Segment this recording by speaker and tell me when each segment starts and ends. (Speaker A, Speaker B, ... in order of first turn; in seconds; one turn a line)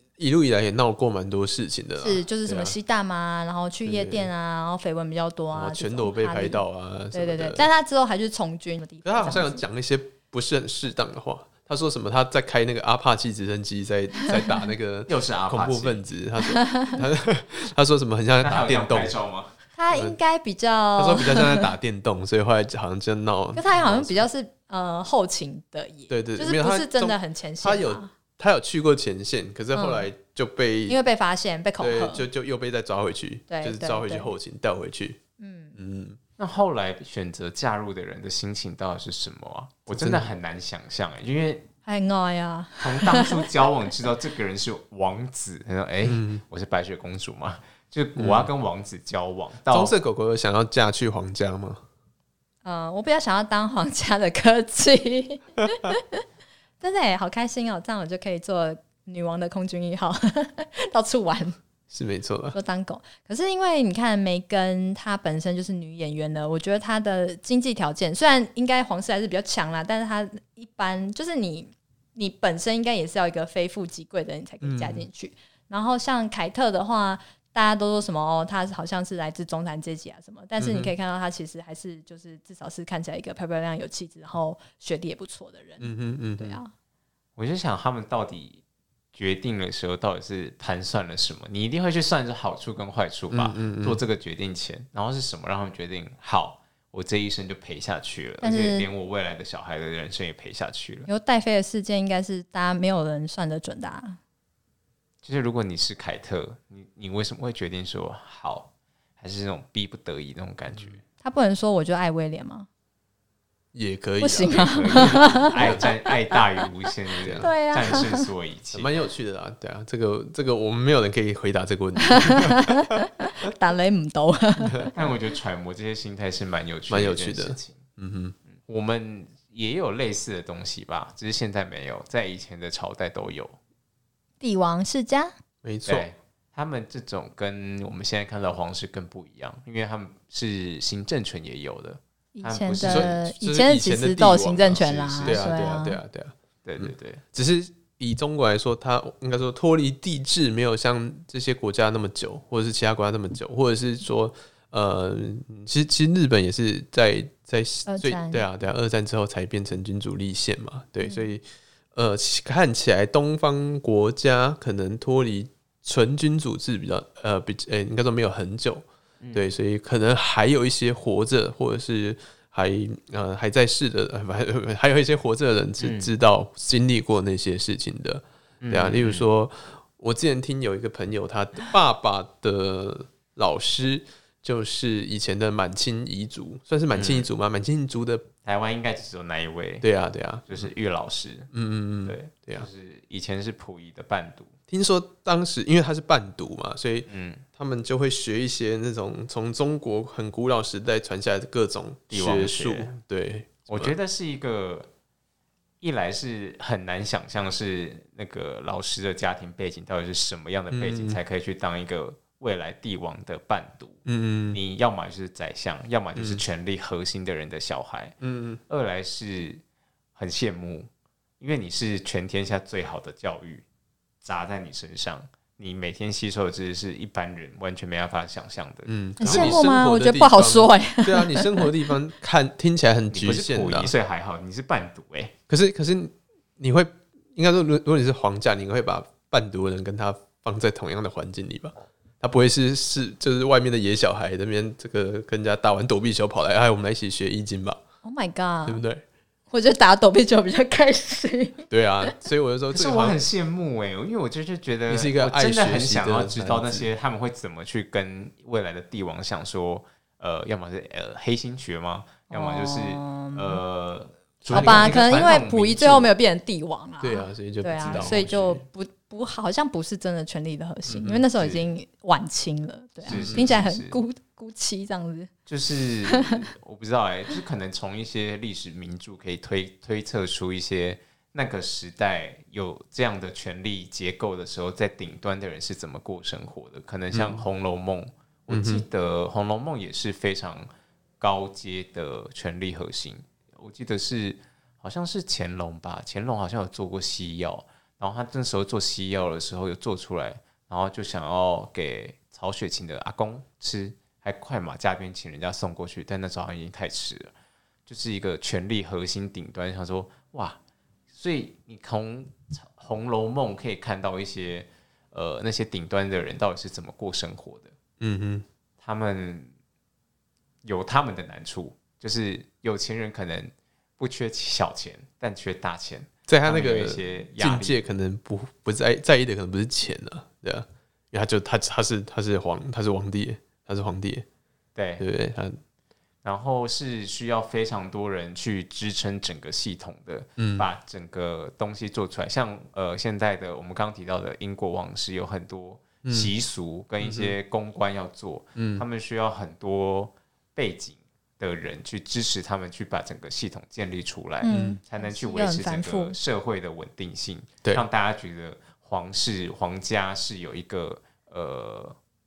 Speaker A: 0.2-2.8
Speaker B: 2.0-9.6
Speaker A: 3.9-4.3
Speaker A: 5.5-7.7
Speaker A: 9.0-19.1
Speaker B: 14.2-14.6
Speaker C: 15.1-16.1
Speaker B: 16.5-17.0
Speaker C: 18.4-19.6
Speaker B: 19.8-21.7
Speaker A: 19.9-20.2
Speaker A: 21.0-24.3
Speaker B: 23.6-28.1
Speaker A: 26.1-31.0
Speaker B: 29.7-30.1
Speaker B: 30.9-32.3
Speaker A: 31.8-35.2
Speaker B: 33.5-34.3
Speaker B: 35.4-35.8
Speaker A: 35.8-36.2
Speaker C: 36.4-41.7
Speaker A: 39.9-40.3
Speaker B: 41.9-43.6
Speaker C: 42.8-49.9
Speaker A: 46.0-46.4
Speaker A: 48.2-48.5
Speaker A: 49.7-51.8
Speaker B: 52.6-56.2
Speaker B: 56.8-61.6
Speaker A: 61.9-62.6
Speaker B: 62.5-86.7
Speaker A: 74.6-75.1
Speaker A: 80.6-80.9
Speaker A: 85.8-86.6
Speaker C: 87.4-88.6
Speaker C: 89.1-101.1
Speaker A: 93.3-94.0
Speaker B: 98.4-98.9
Speaker B: 101.1-104.2
Speaker C: 105.2-111.0
Speaker B: 111.2-112.7
Speaker A: 113.7-115.9
Speaker B: 114.2-116.6
Speaker C: 114.4-119.0
Speaker A: 117.2-118.1
Speaker B: 117.3-118.3
Speaker A: 118.7-122.8
Speaker B: 122.0-124.9
Speaker A: 124.6-124.9
Speaker C: 125.0-127.8
Speaker A: 126.9-128.3
Speaker C: 128.6-133.6
Speaker B: 134.4-135.3
Speaker A: 135.6-136.1
Speaker C: 135.9-143.2
Speaker B: 142.3-146.0
Speaker A: 142.8-188.3
Speaker C: 144.8-145.5
Speaker C: 146.6-147.2
Speaker B: 157.9-158.4
Speaker C: 169.2-169.5
Speaker C: 175.8-176.1
Speaker C: 178.6-179.3
Speaker C: 186.9-187.3
Speaker C: 188.4-189.9
Speaker A: 189.8-190.7
Speaker C: 190.5-191.5
Speaker A: 191.5-192.7
Speaker C: 192.0-194.5
Speaker A: 194.7-203.9
Speaker C: 197.1-197.4
Speaker C: 202.1-202.9
Speaker C: 203.7-204.9
Speaker C: 205.8-218.2
Speaker A: 210.7-211.2
Speaker A: 214.1-214.6
Speaker A: 216.2-216.4
Speaker A: 218.2-218.6
Speaker C: 218.7-219.6
Speaker C: 220.2-220.9
Speaker C: 221.4-223.6
Speaker C: 224.2-229.6
Speaker A: 228.9-233.9
Speaker B: 229.2-231.9
Speaker C: 233.1-235.3
Speaker A: 235.5-247.8
Speaker B: 248.0-248.8
Speaker A: 248.7-249.0
Speaker B: 249.5-252.2
Speaker A: 251.7-253.2
Speaker C: 252.7-266.1
Speaker A: 254.9-256.9
Speaker B: 262.3-263.6
Speaker A: 264.4-265.3
Speaker B: 264.5-275.3
Speaker A: 267.0-268.6
Speaker C: 267.8-268.5
Speaker A: 270.9-271.2
Speaker C: 271.1-271.6
Speaker C: 273.0-274.0
Speaker A: 273.1-273.5
Speaker C: 275.5-290.7
Speaker B: 276.1-276.4
Speaker A: 287.1-287.4
Speaker A: 288.5-288.8
Speaker C: 291.2-307.3
Speaker C: 307.9-310.6
Speaker C: 311.1-317.8
Speaker A: 318.0-318.4
Speaker C: 318.8-319.5
Speaker C: 320.6-327.9
Speaker A: 326.3-334.3
Speaker C: 334.8-335.1
Speaker A: 335.0-335.6
Speaker C: 336.2-362.0
Speaker A: 340.4-340.7
Speaker A: 346.0-346.3
Speaker A: 347.0-347.4
Speaker A: 348.6-348.9
Speaker B: 354.4-356.2
Speaker A: 354.5-354.8